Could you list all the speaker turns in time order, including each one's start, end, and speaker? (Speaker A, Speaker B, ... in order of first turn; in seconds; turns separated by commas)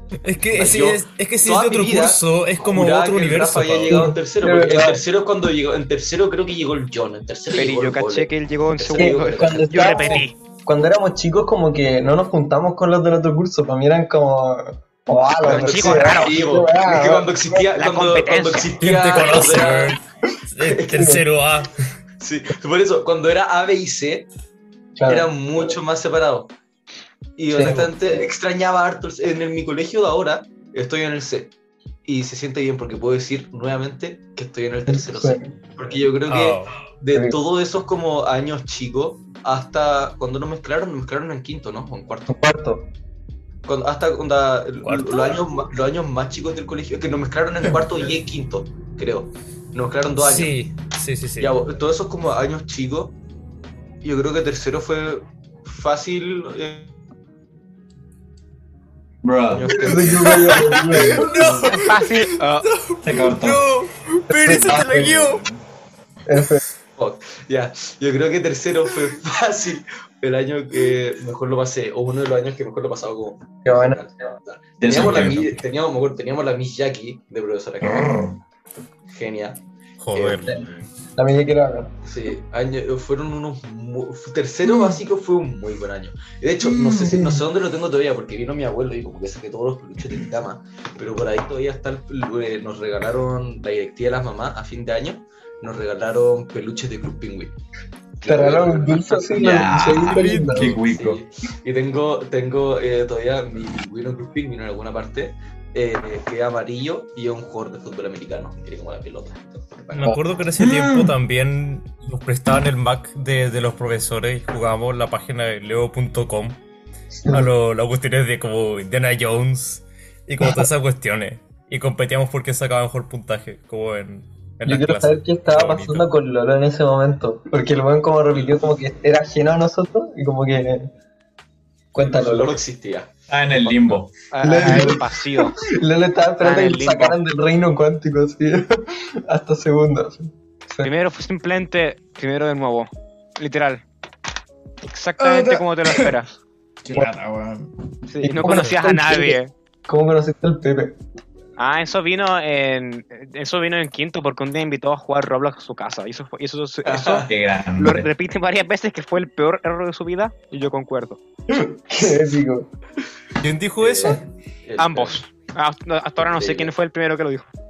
Speaker A: 0.2-4.1, Speaker B: 0.5-10.2, Speaker C: 3.9-5.0, Speaker D: 7.5-10.4, Speaker C: 8.9-17.7, Speaker B: 15.4-20.0, Speaker D: 15.5-16.4, Speaker D: 17.7-18.7, Speaker A: 18.8-20.0, Speaker A: 20.5-21.7, Speaker B: 20.7-21.1, Speaker C: 20.7-21.2, Speaker B: 22.2-24.3, Speaker C: 25.0-25.8, Speaker B: 25.1-26.5, Speaker B: 27.4-31.5, Speaker C: 27.5-28.3, Speaker A: 27.6-27.9, Speaker B: 32.1-42.4, Speaker C: 34.9-35.5, Speaker A: 36.3-36.8, Speaker C: 42.3-42.9, Speaker B: 43.6-50.6, Speaker A: 44.8-45.4, Speaker A: 50.1-51.5, Speaker B: 51.4-53.2, Speaker B: 54.0-56.9, Speaker E: 59.2-60.2, Speaker B: 59.5-60.8, Speaker C: 59.8-61.6, Speaker A: 60.2-65.5, Speaker D: 61.7-62.7, Speaker E: 63.0-63.7, Speaker C: 64.3-65.3, Speaker F: 64.8-65.5, Speaker C: 66.3-66.6, Speaker B: 67.0-78.3, Speaker C: 73.7-74.3, Speaker E: 74.8-75.6, Speaker E: 77.8-78.4, Speaker B: 79.1-79.6, Speaker A: 80.0-80.7, Speaker B: 80.2-80.5, Speaker C: 80.5-81.9, Speaker B: 82.0-97.5, Speaker C: 86.7-87.4, Speaker B: 98.2-99.2, Speaker C: 98.3-100.8, Speaker E: 99.3-101.2, Speaker A: 100.0-100.8, Speaker B: 100.6-110.2, Speaker A: 109.9-116.6, Speaker E: 110.6-111.2, Speaker A: 117.3-126.1, Speaker C: 124.7-130.9, Speaker C: 131.9-132.6, Speaker B: 132.0-133.1, Speaker E: 133.3-134.1, Speaker D: 134.3-135.6, Speaker C: 134.4-140.9, Speaker D: 136.4-137.2, Speaker D: 140.8-143.8, Speaker D: 144.8-146.3, Speaker F: 145.2-146.1, Speaker F: 146.8-147.7, Speaker D: 148.1-149.5, Speaker C: 148.2-151.0, Speaker A: 148.5-148.8, Speaker D: 151.6-161.2, Speaker B: 156.8-157.4, Speaker E: 157.3-158.1, Speaker C: 161.5-162.7, Speaker A: 163.4-164.2, Speaker B: 163.8-165.2, Speaker D: 164.8-167.5, Speaker B: 166.2-166.7